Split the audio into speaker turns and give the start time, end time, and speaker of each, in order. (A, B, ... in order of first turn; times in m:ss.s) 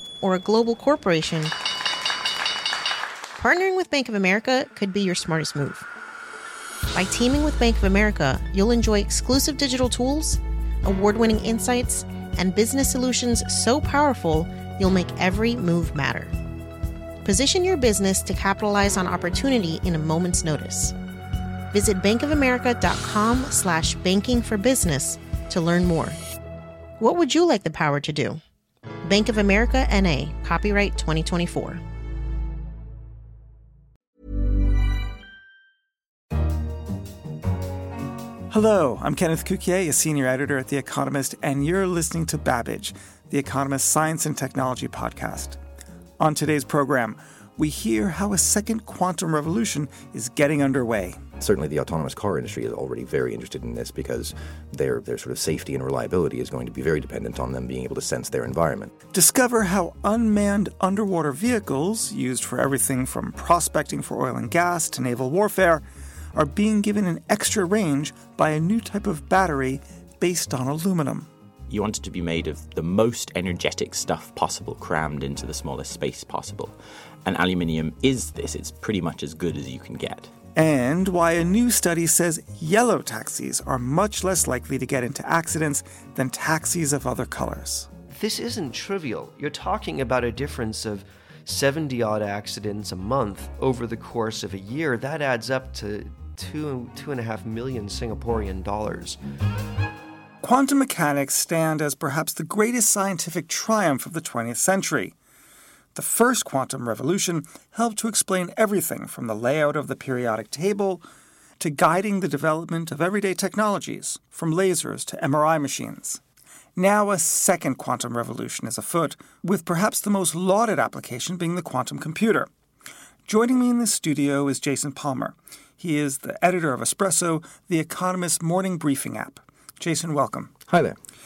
0:00.2-0:01.5 A
0:03.4-0:05.9 A
0:06.9-0:16.3 A
0:17.2-0:20.9 A
0:21.7-0:26.2 A
0:27.0-0:28.4 A
0:29.0-0:31.8 A
0:38.5-0:45.6 B
0:46.2-0:51.2 B
0:51.4-0:58.9 C
0:59.1-1:11.3 B
1:11.7-1:20.3 D
1:20.6-1:27.9 B
1:28.1-1:39.2 E
1:40.4-1:45.2 B
1:45.9-1:51.0 B
1:51.6-1:56.2 B
1:56.8-2:02.5 B
2:03.2-2:10.5 B
2:10.7-2:11.0 C